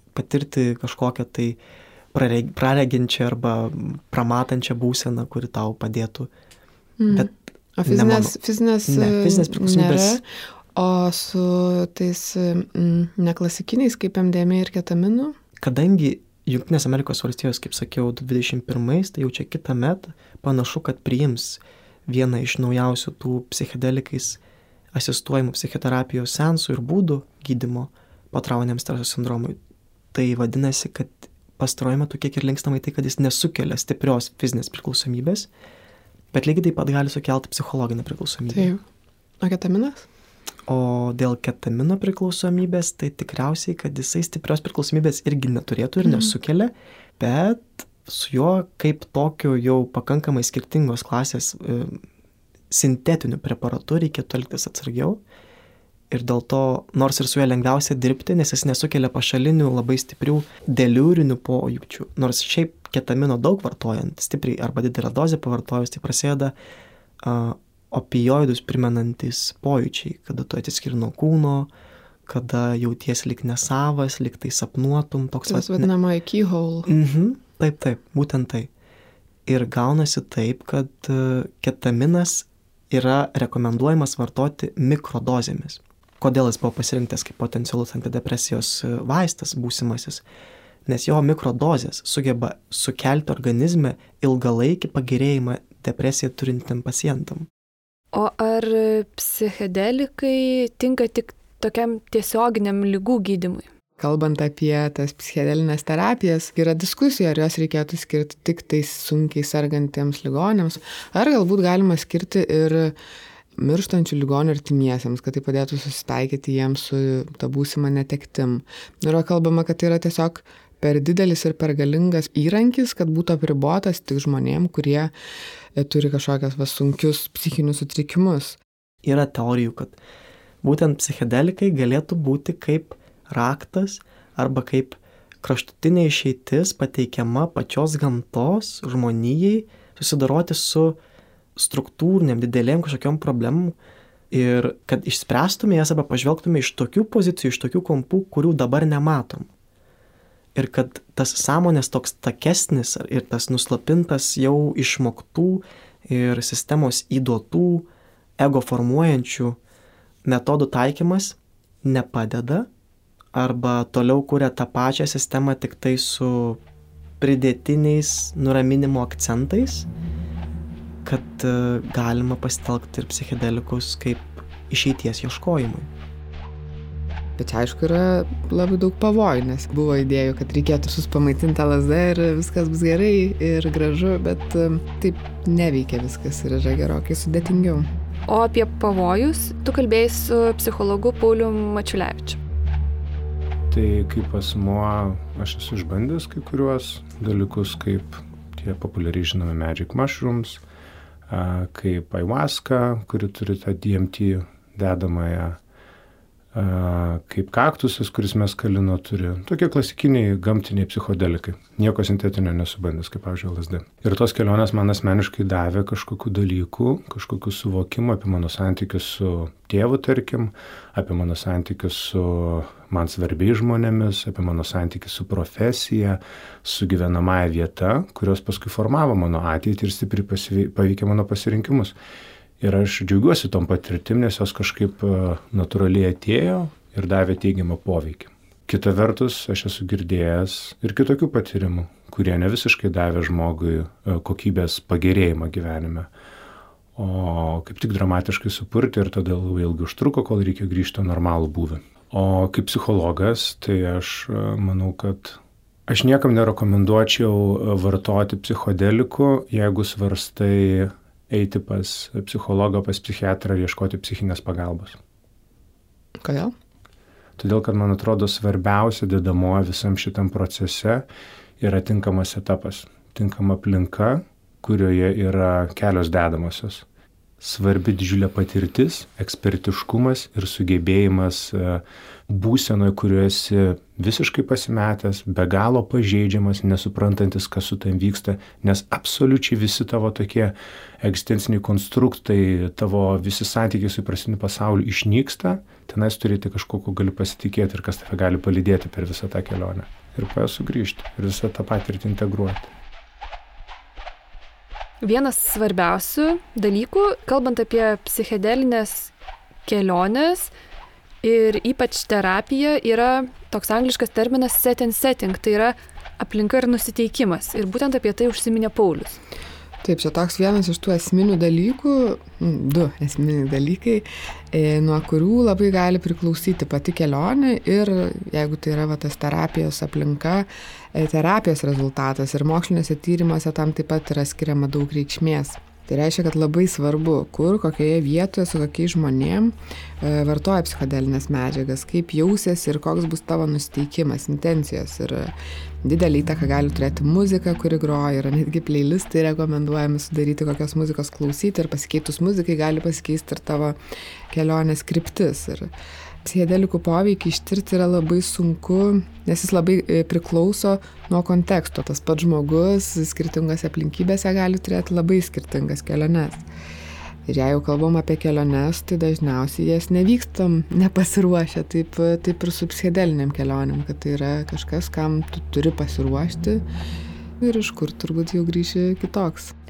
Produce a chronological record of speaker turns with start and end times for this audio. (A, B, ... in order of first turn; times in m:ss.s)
0:00.2-0:01.6 A
0:02.1-0:06.3 A
0:07.0-0:10.2 B
0:07.8-0:08.3 A
0:08.9-0:10.2 A
0:10.8-0:15.4 B
0:15.6-0:24.4 A
0:24.9-0:29.6 A
0:30.1-0:35.5 A
0:36.3-0:38.7 A
0:38.5-0:38.8 B
0:39.4-0:40.1 B
0:40.7-0:52.0 A
0:46.0-0:46.3 B
0:52.7-0:55.2 A
0:56.1-1:06.5 A
1:07.2-1:11.7 A
1:12.3-1:15.9 A
1:15.5-1:16.9 B
1:16.9-1:18.7 A
1:19.5-1:30.2 A
1:30.9-1:37.5 A
1:38.1-1:43.7 C
1:44.0-1:53.0 B
1:53.6-2:05.1 B
2:05.8-2:08.6 B
2:09.0-2:10.0 A
2:10.6-2:21.0 A
2:21.6-2:23.8 A
2:24.3-2:29.5 A
2:30.6-2:39.6 A
2:40.2-2:42.7 A
2:43.3-2:46.6 A
2:47.2-2:49.9 A
2:51.0-2:55.9 A
2:57.4-3:07.9 B
3:08.3-3:12.4 C
3:13.7-3:20.6 D
3:21.3-3:25.6 D
3:26.5-3:52.0 D
3:52.6-4:06.1 D
4:07.0-4:25.0 D
4:26.2-4:26.5 B
4:27.4-4:31.1 D
4:31.6-4:36.8 D
4:37.4-5:02.7 D
5:05.0-5:09.1 C
5:09.7-5:10.5 C
5:11.2-5:19.2 C
5:19.8-5:45.3 B
5:45.8-5:53.8 B
5:54.3-5:55.7 B
5:56.2-6:06.4 B
6:07.3-6:16.6 B
6:17.4-6:19.5 B